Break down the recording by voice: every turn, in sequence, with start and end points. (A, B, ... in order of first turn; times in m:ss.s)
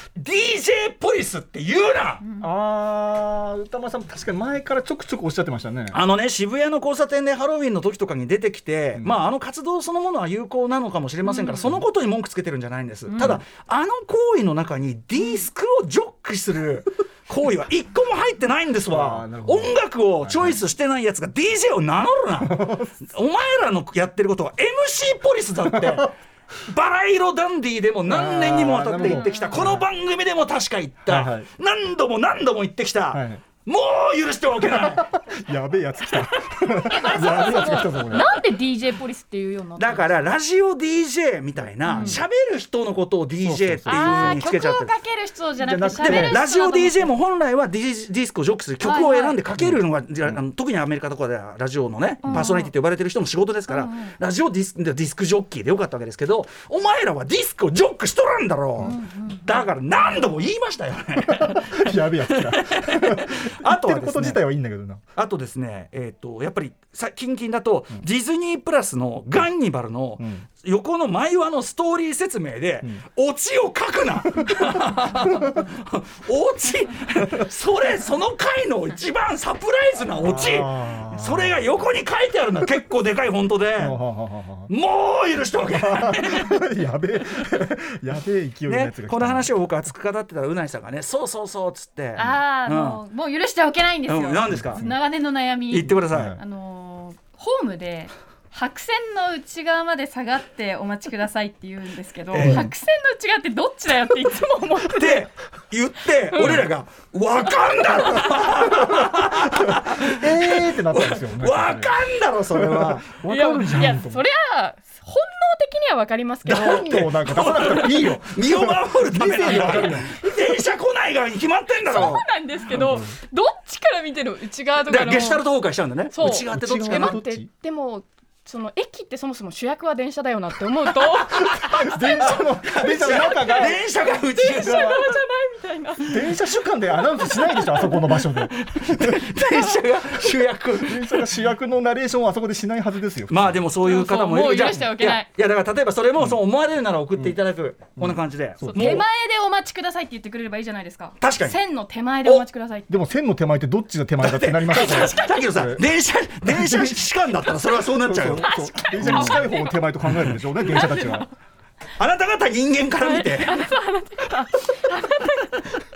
0:00.2-0:02.2 A
0:02.4-0:06.0 B
0:05.9-0:35.1 A
0:11.2-0:11.8 C
0:13.1-0:13.4 C
0:18.8-0:20.6 B
0:22.4-0:22.9 B
0:28.0-0:29.8 B
0:28.9-0:29.8 C
0:31.0-0:31.5 B
0:33.1-0:33.4 B
0:35.0-0:38.5 B
0:36.7-0:40.2 C
0:37.2-0:37.8 A
0:39.8-0:44.9 A
0:41.8-0:42.2 C
0:41.9-0:42.2 B
0:43.4-0:44.5 B
0:43.8-0:47.1 C
0:45.6-0:46.4 B
0:46.0-1:04.4 A
0:48.8-0:49.4 C
0:49.6-0:50.4 B
0:52.2-0:52.7 C
0:53.7-0:54.1 C
0:58.8-0:59.5 C
1:01.2-1:05.0 B
1:05.1-1:24.0 A
1:10.2-1:10.5 B
1:20.2-1:21.7 B
1:23.8-1:24.7 B
1:24.7-1:26.6 A
1:25.7-1:29.5 B
1:28.7-1:33.0 A
1:32.2-1:45.3 C
1:34.0-1:34.9 A
1:34.6-1:35.0 B
1:35.7-1:36.4 A
1:36.1-1:36.4 B
1:42.3-1:42.7 A
1:42.3-1:42.7 B
1:44.9-1:53.1 A
1:46.3-1:46.7 C
1:47.8-1:48.4 C
1:50.1-1:54.2 B
1:53.3-1:57.0 C
1:56.4-2:00.2 B
1:56.5-2:02.2 A
2:01.8-2:05.4 C
2:02.7-2:03.1 B
2:04.8-2:07.2 A
2:06.1-2:12.4 C
2:06.2-2:07.5 B
2:11.1-2:11.8 A
2:11.7-2:13.8 B
2:12.6-2:15.1 A
2:13.0-2:16.2 C
2:14.6-2:15.0 B
2:16.0-2:19.3 B
2:18.1-2:21.2 A
2:20.8-2:23.6 B
2:23.3-2:29.0 A
2:23.8-2:25.3 C
2:28.0-2:29.0 B
2:28.6-2:32.9 C
2:31.2-2:31.6 A
2:32.9-2:35.9 B
2:34.2-2:39.5 A
2:34.7-2:35.4 C
2:36.4-2:37.1 B
2:38.0-2:41.3 B
2:38.3-2:39.8 C
2:40.6-2:41.2 C
2:42.0-2:43.7 A
2:43.0-2:45.7 C